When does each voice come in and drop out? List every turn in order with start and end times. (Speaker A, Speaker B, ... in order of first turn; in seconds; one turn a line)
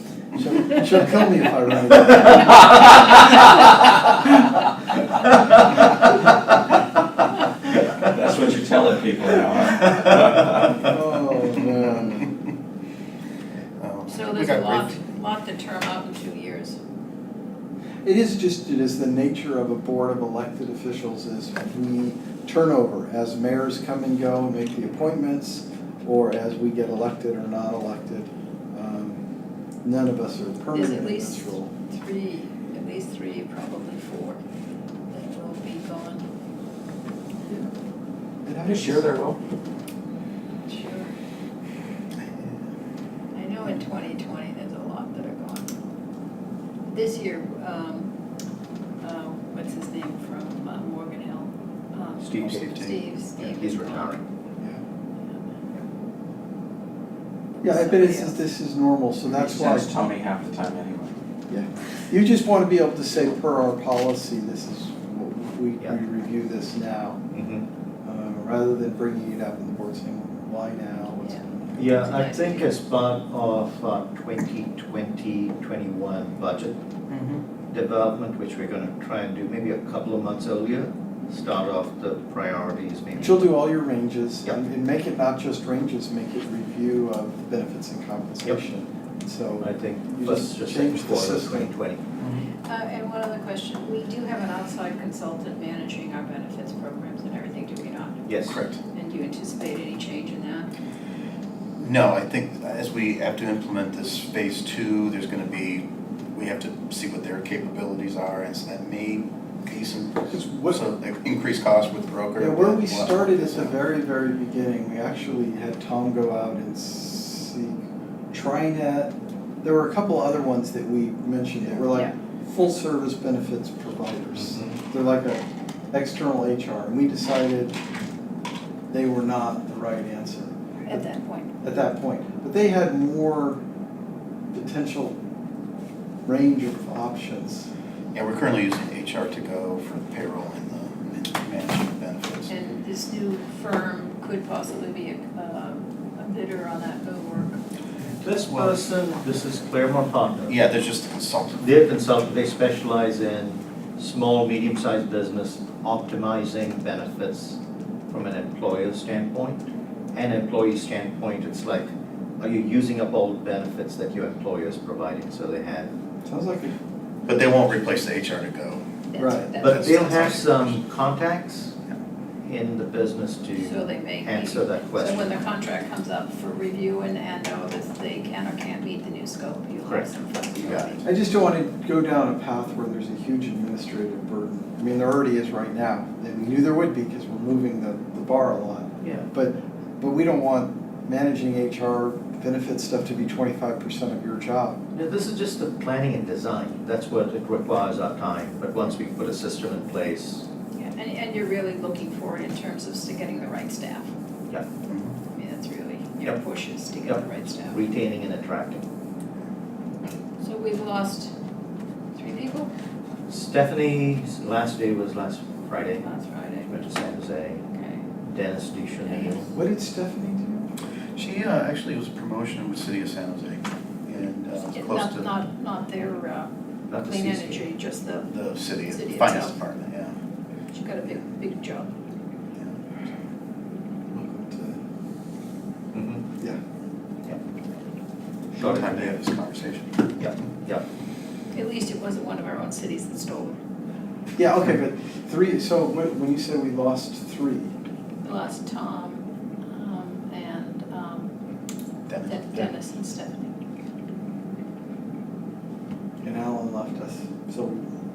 Speaker A: 0.3-3.0
Speaker B: 8.0-10.7
Speaker A: 10.3-12.3
Speaker C: 11.7-12.3
Speaker C: 13.8-15.1
Speaker D: 14.1-16.8
Speaker A: 18.0-29.2
Speaker A: 29.8-31.7
Speaker D: 30.7-34.4
Speaker D: 35.1-36.2
Speaker A: 38.4-39.2
Speaker B: 38.6-39.4
Speaker D: 40.7-41.1
Speaker D: 43.3-45.7
Speaker D: 46.9-48.1
Speaker D: 49.0-54.2
Speaker E: 52.2-52.9
Speaker C: 52.4-53.0
Speaker E: 53.4-54.2
Speaker D: 57.6-58.4
Speaker A: 57.6-60.0
Speaker B: 59.3-61.2
Speaker A: 61.5-67.2
Speaker E: 67.3-67.7
Speaker A: 68.0-72.1
Speaker E: 71.8-76.8
Speaker D: 72.0-72.7
Speaker C: 77.1-77.4
Speaker E: 77.7-83.6
Speaker A: 83.2-91.7
Speaker E: 89.6-92.0
Speaker C: 92.2-92.5
Speaker D: 92.7-100.7
Speaker E: 98.3-98.6
Speaker C: 98.5-98.8
Speaker C: 101.8-113.8
Speaker A: 110.3-110.8
Speaker A: 112.4-117.8
Speaker A: 118.3-127.8
Speaker A: 128.9-131.1
Speaker D: 130.9-131.5
Speaker A: 131.6-133.6
Speaker A: 134.5-135.2
Speaker A: 136.2-137.7
Speaker C: 138.1-142.5
Speaker D: 142.5-147.6
Speaker E: 148.2-150.6
Speaker C: 148.5-148.8
Speaker C: 150.5-151.7
Speaker E: 151.6-157.6
Speaker E: 158.1-159.6
Speaker E: 160.1-165.9
Speaker A: 166.2-166.8
Speaker C: 167.3-168.8
Speaker D: 169.1-170.3
Speaker A: 169.2-169.5
Speaker E: 169.6-171.8
Speaker C: 169.6-170.8
Speaker E: 172.4-175.4
Speaker D: 173.6-181.1
Speaker E: 179.8-181.0
Speaker A: 181.0-194.8
Speaker E: 189.0-189.3
Speaker E: 194.9-200.4
Speaker D: 200.7-204.1
Speaker C: 204.9-205.2
Speaker D: 205.3-207.8
Speaker E: 207.0-208.8
Speaker D: 210.4-211.3
Speaker D: 212.2-212.7
Speaker E: 213.3-216.1
Speaker D: 216.0-217.0
Speaker E: 216.7-217.6
Speaker D: 217.7-218.1
Speaker E: 218.2-219.5
Speaker D: 219.0-219.5
Speaker A: 219.5-220.7
Speaker C: 221.2-225.3
Speaker D: 224.6-226.5
Speaker E: 226.9-227.7
Speaker D: 227.0-229.6
Speaker C: 228.3-230.2
Speaker D: 230.7-231.9
Speaker A: 234.1-234.8
Speaker E: 235.9-236.2
Speaker C: 238.6-240.0
Speaker E: 238.6-239.2
Speaker E: 240.2-240.8
Speaker D: 241.5-243.6
Speaker A: 244.4-247.8
Speaker D: 248.2-251.3
Speaker C: 252.1-252.7
Speaker D: 252.2-253.5
Speaker A: 256.2-257.8